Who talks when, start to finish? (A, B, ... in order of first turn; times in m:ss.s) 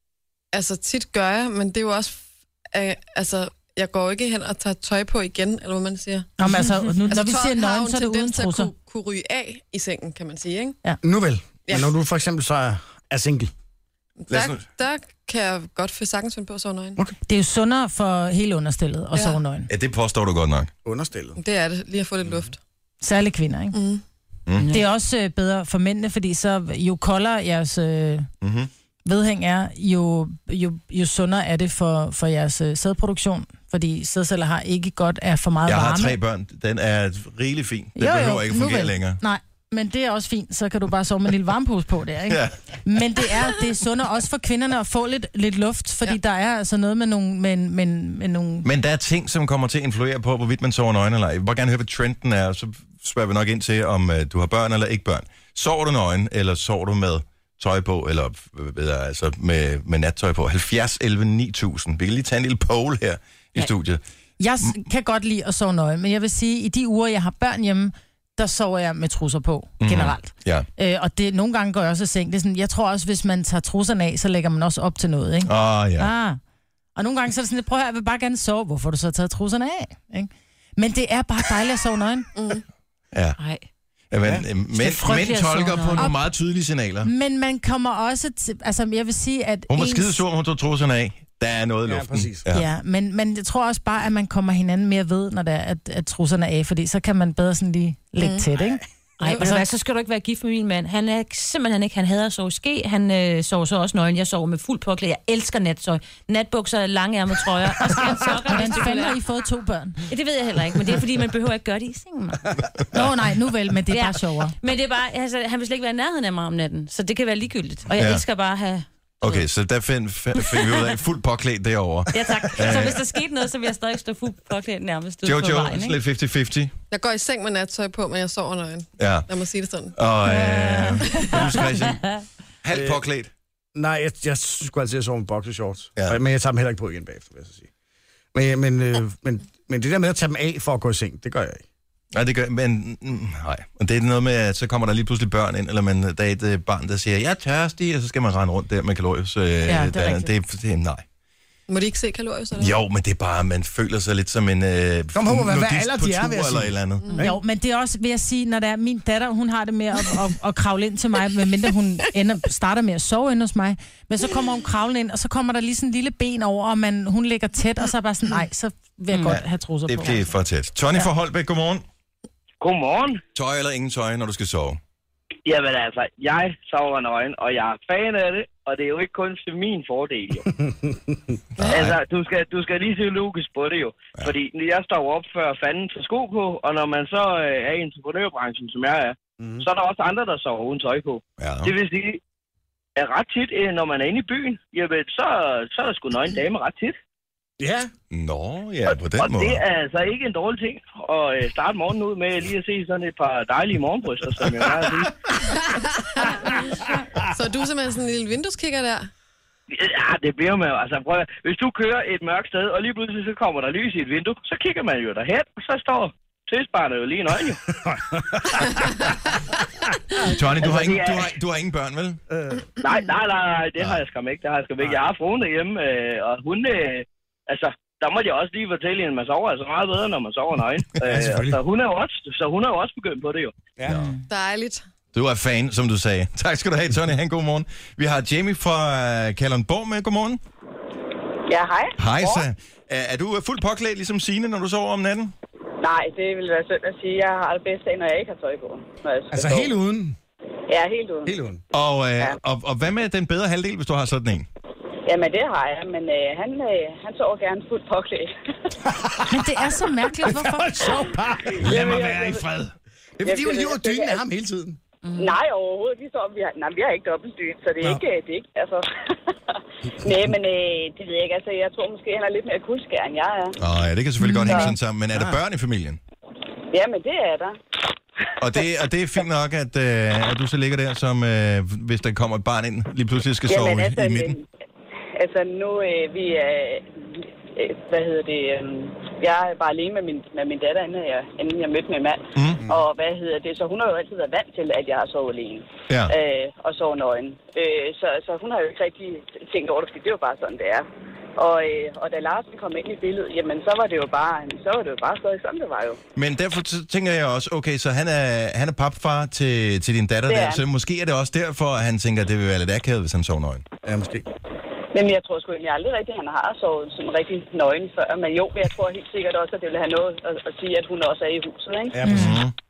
0:00.5-0:06.3 A
0:06.4-0:08.7 B
0:07.1-0:10.8 A
0:11.0-0:13.5 C
0:14.2-0:17.0 A
0:14.3-0:14.6 D
0:17.2-0:19.7 B
0:19.1-0:19.4 A
0:19.7-0:20.7 D
0:20.8-0:21.4 C
0:21.4-0:22.6 A
0:23.0-0:23.8 B
0:23.7-0:24.0 A
0:24.6-0:24.8 E
0:24.7-0:28.3 B
0:28.4-0:28.7 D
0:29.0-0:36.2 B
0:35.6-0:39.2 D
0:38.0-0:48.7 B
0:42.3-0:42.6 D
0:48.6-1:04.0 D
1:04.4-1:16.4 B
1:09.8-1:10.7 D
1:15.4-1:16.1 D
1:17.0-1:22.3 B
1:22.3-1:22.6 A
1:23.1-1:23.4 D
1:23.4-1:23.6 E
1:24.1-1:27.1 D
1:24.8-1:26.1 E
1:27.0-1:30.2 B
1:29.7-1:32.7 D
1:31.8-1:32.4 C
1:32.5-1:39.6 B
1:38.2-1:38.4 A
1:39.2-1:49.2 E
1:48.4-1:50.0 B
1:50.1-1:52.6 E
1:52.9-1:54.5 B
1:53.9-1:59.4 E
1:57.9-1:58.2 D
1:59.2-2:03.0 D
2:00.4-2:00.9 E
2:02.1-2:06.0 E
2:05.2-2:06.7 D
2:06.9-2:09.9 A
2:09.0-2:09.3 D
2:09.9-2:13.3 D
2:10.5-2:11.3 E
2:12.7-2:13.0 C
2:13.7-2:17.7 C
2:18.3-2:21.6 C
2:22.1-2:31.0 D
2:29.6-2:30.3 B
2:31.7-2:32.8 A
2:32.6-2:37.2 D
2:35.1-2:37.4 C
2:37.2-2:50.4 B
2:49.1-2:49.4 E
2:49.2-2:51.8 D
2:52.6-2:53.2 F
2:53.3-2:54.8 D
2:55.4-3:00.4 F
3:00.5-3:01.4 C
3:01.6-3:02.0 D
3:01.7-3:12.2 F
3:09.4-3:09.6 C
3:11.4-3:11.7 D
3:13.0-3:16.9 F
3:17.6-3:17.9 C
3:18.1-3:19.6 D
3:18.9-3:25.1 F
3:25.7-3:26.6 A
3:27.3-3:29.1 A
3:29.7-3:37.6 F
3:37.7-3:39.1 C
3:40.2-3:42.2 D
3:40.6-3:41.3 F
3:42.3-3:42.8 C
3:42.8-3:53.5 F
3:51.0-3:51.6 C
3:53.8-3:54.0 C
3:53.8-3:54.1 D
3:53.9-3:54.2 B
3:54.3-3:54.8 A
3:55.1-4:00.4 D
4:01.5-4:02.5 G
4:02.0-4:05.3 D
4:05.8-4:09.7 G
4:09.3-4:10.2 C
4:10.7-4:11.4 G
4:11.2-4:11.6 C
4:11.7-4:14.5 D
4:15.0-4:18.3 G
4:18.8-4:19.6 C
4:19.3-4:21.0 B
4:20.2-4:22.4 C
4:21.6-4:22.7 D
4:21.6-4:22.4 G
4:23.2-4:24.8 C
4:23.2-4:24.2 G
4:25.0-4:25.4 E
4:25.2-4:28.8 G
4:29.5-4:33.6 G
4:30.0-4:30.3 C
4:33.6-4:36.0 D
4:34.2-4:34.7 B
4:34.4-4:34.7 G
4:36.7-4:37.6 G
4:38.4-4:44.4 D
4:43.5-4:44.4 G
4:45.2-5:00.8 G
4:52.3-4:52.6 D
5:01.4-5:06.0 G
5:06.2-5:13.6 D
5:10.3-5:10.6 G
5:13.8-5:14.2 C
5:14.9-5:22.0 G
5:21.9-5:22.4 C
5:22.0-5:22.4 B
5:22.0-5:22.5 D